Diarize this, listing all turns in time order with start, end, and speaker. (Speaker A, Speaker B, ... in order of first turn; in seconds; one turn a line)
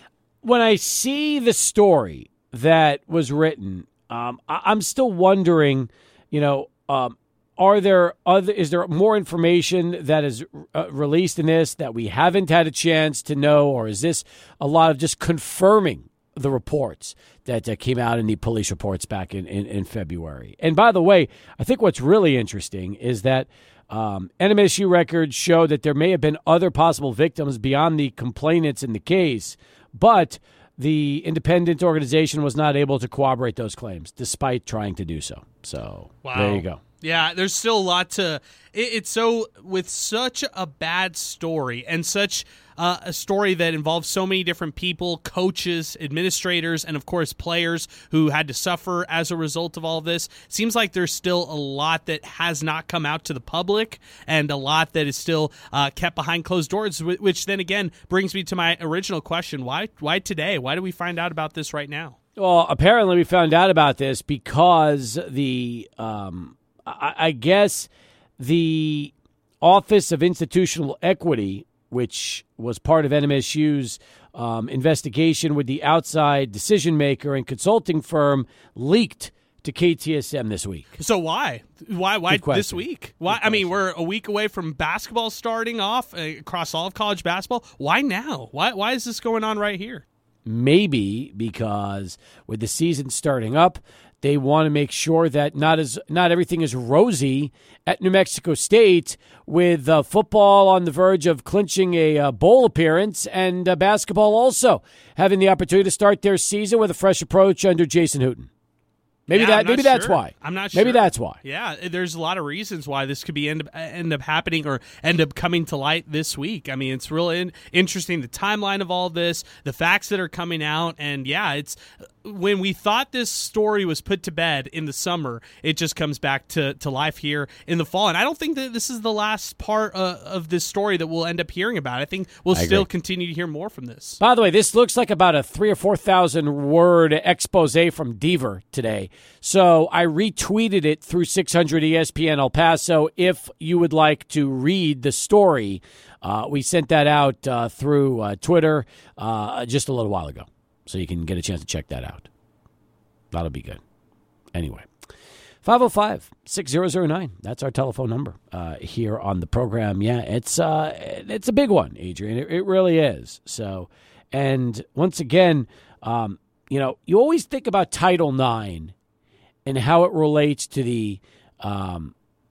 Speaker A: 0.4-36.8
Speaker B: 36.2-62.2
Speaker A: 62.4-80.9
Speaker B: 81.0-90.0
Speaker A: 82.3-83.8
Speaker A: 90.5-108.5
Speaker A: 109.3-111.4
Speaker B: 109.3-134.2
Speaker A: 132.5-132.9
Speaker A: 134.2-152.3
Speaker A: 153.3-153.8
Speaker A: 154.5-154.9
Speaker A: 155.6-168.9
Speaker A: 169.7-172.1